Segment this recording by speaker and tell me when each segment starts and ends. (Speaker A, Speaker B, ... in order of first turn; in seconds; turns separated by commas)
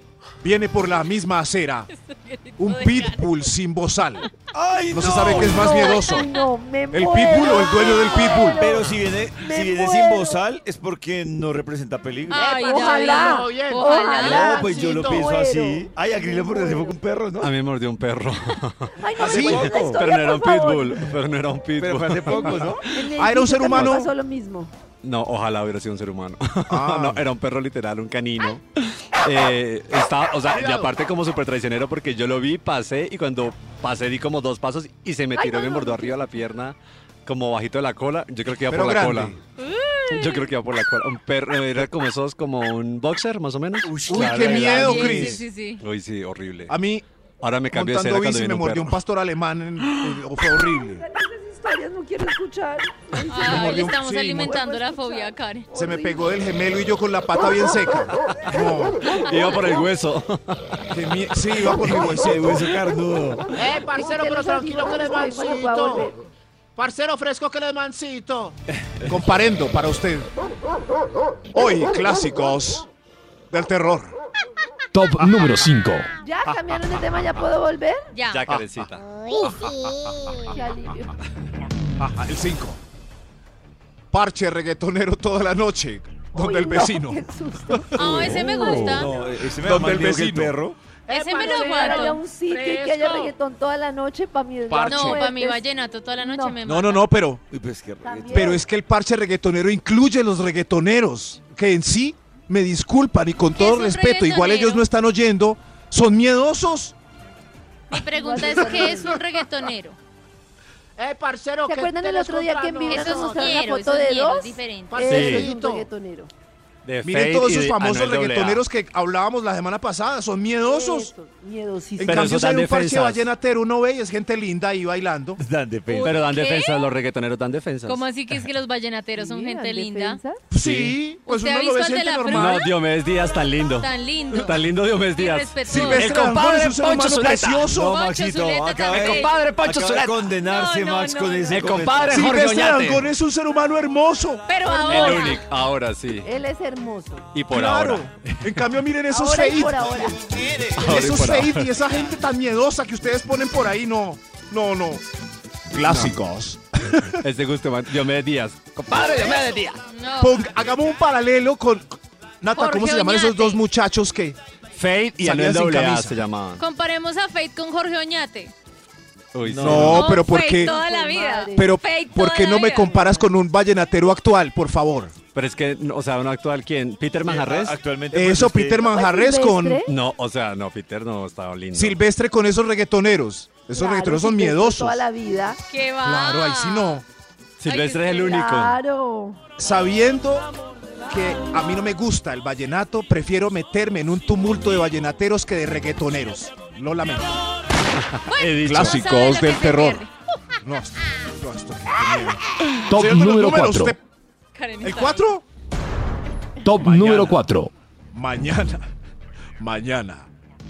Speaker A: 0.4-1.9, Speaker B: 1.9-3.3, Speaker A: 2.6-4.3, Speaker C: 4.5-5.8, Speaker A: 4.9-6.3, Speaker D: 5.4-10.4, Speaker B: 6.0-6.4, Speaker A: 6.9-8.7, Speaker C: 8.5-12.6, Speaker B: 12.3-14.8, Speaker E: 12.4-15.3, Speaker D: 12.4-17.0, Speaker C: 14.2-17.5, Speaker F: 17.4-23.1, Speaker D: 19.0-21.0, Speaker C: 19.2-20.1, Speaker A: 19.2-19.7, Speaker C: 21.8-22.8, Speaker D: 22.3-24.7, Speaker A: 23.2-24.1, Speaker F: 25.0-39.4, Speaker A: 26.7-27.3, Speaker D: 35.4-36.2, Speaker A: 38.7-39.4, Speaker B: 39.6-40.5, Speaker F: 40.1-46.8, Speaker C: 43.9-44.7, Speaker A: 44.1-45.4, Speaker B: 44.4-45.8, Speaker A: 46.7-47.0, Speaker F: 47.4-49.0, Speaker A: 47.7-51.0, Speaker D: 50.9-56.3, Speaker B: 53.3-55.7, Speaker A: 53.3-54.6, Speaker A: 55.8-59.0, Speaker F: 59.1-60.6, Speaker A: 60.9-62.7, Speaker C: 61.6-63.5, Speaker E: 63.5-66.1, Speaker D: 63.9-66.2, Speaker E: 66.8-68.5, Speaker A: 69.1-70.4, Speaker A: 71.5-72.9, Speaker A: 73.5-74.2, Speaker G: 74.9-76.1, Speaker D: 76.2-78.0, Speaker B: 78.1-78.5, Speaker F: 78.3-79.3, Speaker D: 80.4-81.2, Speaker A: 82.1-82.8, Speaker A: 84.1-88.3, Speaker D: 86.3-88.8, Speaker B: 88.0-89.1, Speaker C: 88.1-90.8, Speaker F: 88.2-88.8, Speaker A: 89.2-90.6, Speaker E: 91.1-93.3, Speaker B: 91.1-92.2, Speaker D: 91.4-95.6, Speaker A: 94.7-95.2, Speaker B: 94.9-97.1, Speaker D: 96.2-96.6, Speaker A: 96.6-97.4, Speaker C: 97.5-98.6, Speaker D: 98.0-98.6, Speaker A: 98.3-107.0, Speaker B: 103.6-104.9, Speaker B: 107.9-110.0, Speaker D: 108.2-109.2, Speaker E: 111.0-113.6, Speaker D: 111.7-116.3, Speaker B: 112.9-115.3, Speaker E: 114.9-115.9, Speaker F: 115.1-115.5, Speaker F: 116.8-118.6, Speaker A: 117.0-121.1, Speaker D: 120.6-122.4, Speaker A: 122.0-125.4, Speaker F: 122.0-123.3, Speaker C: 125.4-126.2, Speaker B: 125.9-126.9, Speaker F: 126.0-128.5, Speaker B: 127.9-130.2, Speaker D: 129.2-130.4, Speaker A: 130.5-132.7, Speaker F: 130.6-131.0, Speaker B: 131.3-132.7, Speaker F: 132.3-137.8, Speaker B: 133.7-136.1, Speaker A: 135.7-137.9, Speaker C: 137.7-142.3, Speaker B: 137.8-139.4, Speaker F: 138.9-140.3, Speaker B: 140.4-142.1, Speaker F: 141.5-143.1, Speaker A: 142.1-144.5, Speaker B: 144.5-145.5, Speaker D: 144.7-145.4, Speaker F: 144.8-146.3, Speaker D: 146.2-147.3, Speaker F: 147.3-148.6, Speaker A: 147.5-150.0, Speaker D: 149.1-150.2, Speaker C: 149.6-151.1, Speaker F: 150.8-151.7, Speaker A: 150.8-155.0, Speaker A: 155.7-157.2, Speaker F: 155.8-156.2, Speaker F: 157.2-159.8, Speaker B: 159.9-160.5, Speaker A: 160.2-164.4, Speaker B: 162.6-163.6, Speaker F: 164.7-166.6, Speaker A: 165.2-166.2, Speaker B: 166.6-168.5, Speaker F: 169.3-170.2, Speaker C: 169.4-170.1, Speaker A: 169.6-170.8, Speaker B: 169.8-173.1, Speaker D: 170.6-171.7, Speaker A: 171.6-175.2, Speaker F: 175.3-177.8, Speaker C: 177.2-178.9, Speaker A: 178.1-179.8, Speaker D: 178.9-179.9, Speaker F: 179.9-182.0, Speaker A: 181.7-185.0, Speaker D: 183.7-185.6, Speaker B: 185.7-187.0, Speaker A: 186.0-187.1, Speaker F: 187.6-188.8, Speaker B: 187.7-188.4, Speaker D: 188.1-189.4, Speaker A: 189.6-190.5, Speaker A: 191.1-197.4, Speaker F: 198.2-199.0, Speaker B: 198.3-200.1, Speaker A: 198.6-200.1, Speaker A: 200.6-204.0, Speaker G: 202.9-204.0, Speaker B: 204.5-205.3, Speaker A: 204.8-205.4, Speaker G: 206.6-207.7, Speaker A: 206.8-207.4, Speaker A: 208.1-208.9, Speaker A: 209.6-210.3